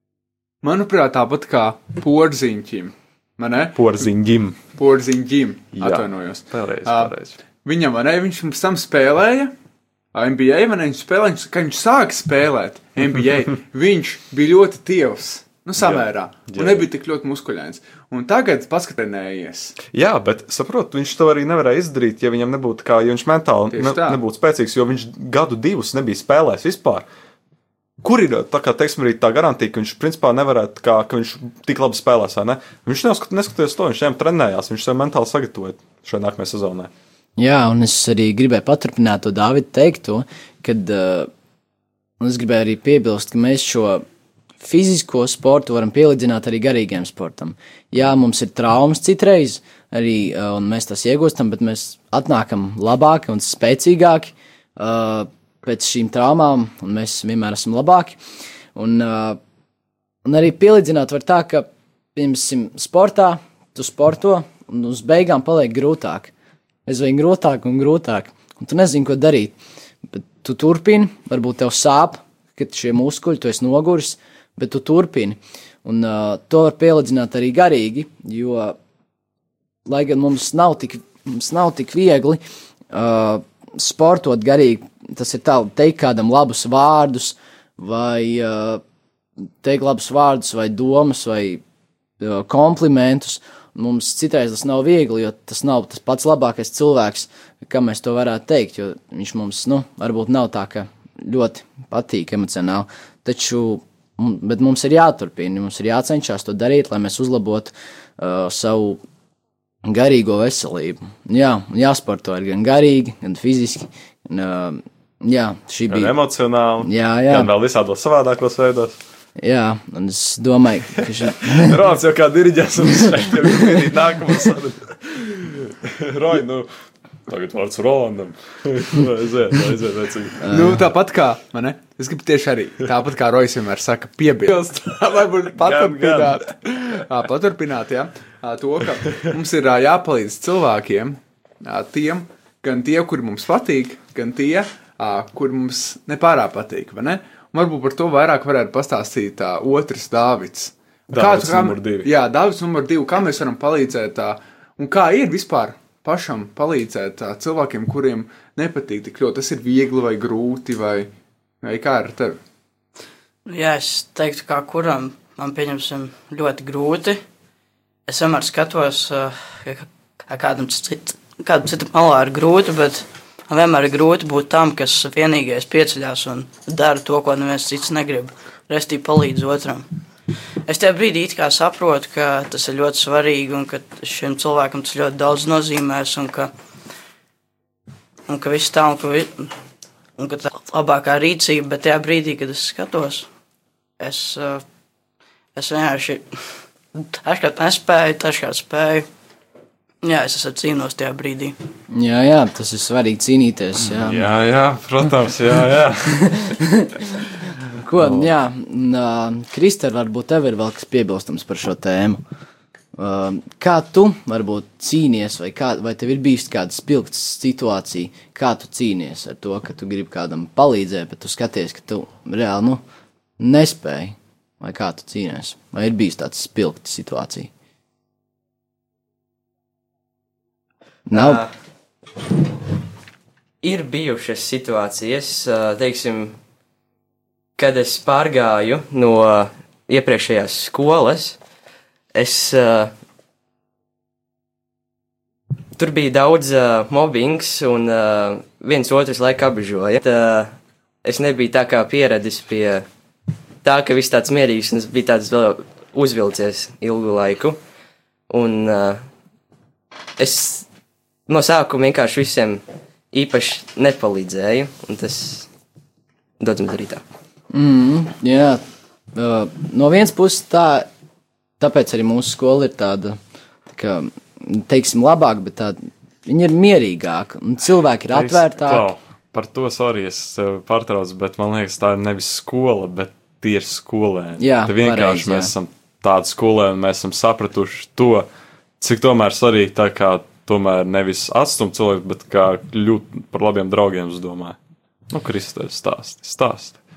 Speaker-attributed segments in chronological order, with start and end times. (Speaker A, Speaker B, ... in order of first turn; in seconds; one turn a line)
Speaker A: 0.6-4.0
Speaker B: 3.8-4.6
Speaker A: 4.7-9.5
Speaker B: 5.8-7.4
Speaker A: 10.1-19.8
Speaker B: 15.8-16.9
Speaker B: 19.9-27.1
Speaker A: 23.7-24.2
Speaker B: 28.0-36.9
Speaker C: 37.4-41.3
Speaker C: 42.2-44.0
Speaker C: 44.6-58.2
Speaker C: 58.7-59.4
Speaker C: 60.2-66.3
Speaker C: 66.8-69.5
Speaker C: 70.1-78.8
Speaker C: 79.8-88.8
Speaker C: 89.6-91.6
Speaker C: 92.2-109.0
Speaker C: 109.8-116.2
Speaker B: 115.9-119.0
Speaker C: 116.8-117.5
Speaker C: 119.4-121.8
Speaker B: 121.2-126.7
Speaker B: 127.3-130.5
Speaker C: 130.4-130.8
Speaker A: 130.5-161.1
Speaker B: 135.5-136.4
Speaker B: 151.1-152.1
Speaker A: 161.6-162.4
Speaker D: 163.5-167.2
Speaker D: 168.1-179.9
Speaker D: 180.7-186.5
Speaker D: 188.3-189.5
Speaker D: 190.2-193.3
Speaker D: 194.0-194.6
Speaker D: 195.5-196.3
Speaker D: 196.9-199.1
Speaker D: 200.0-201.6
Speaker C: 201.9-204.3
Speaker B: 203.9-206.6
Speaker C: 206.3-206.9
Speaker C: 207.8-212.2
Speaker B: 208.0-208.3
Speaker C: 213.0-222.8
Speaker C: 223.4-227.5
Speaker C: 231.1-231.4
Speaker E: 231.1-231.5
Speaker E: 233.6-236.4
Speaker E: 237.6-241.4
Speaker E: 242.1-242.9
Speaker E: 245.8-252.8
Speaker E: 253.6-257.6
Speaker E: 258.3-259.0
Speaker E: 260.2-260.7
Speaker E: 261.3-265.5
Speaker E: 266.4-267.0
Speaker C: 267.5-268.6
Speaker C: 269.1-270.9
Speaker C: 271.6-278.9
Speaker B: 278.1-288.3
Speaker C: 284.4-285.5
Speaker B: 288.8-294.6
Speaker B: 295.1-296.8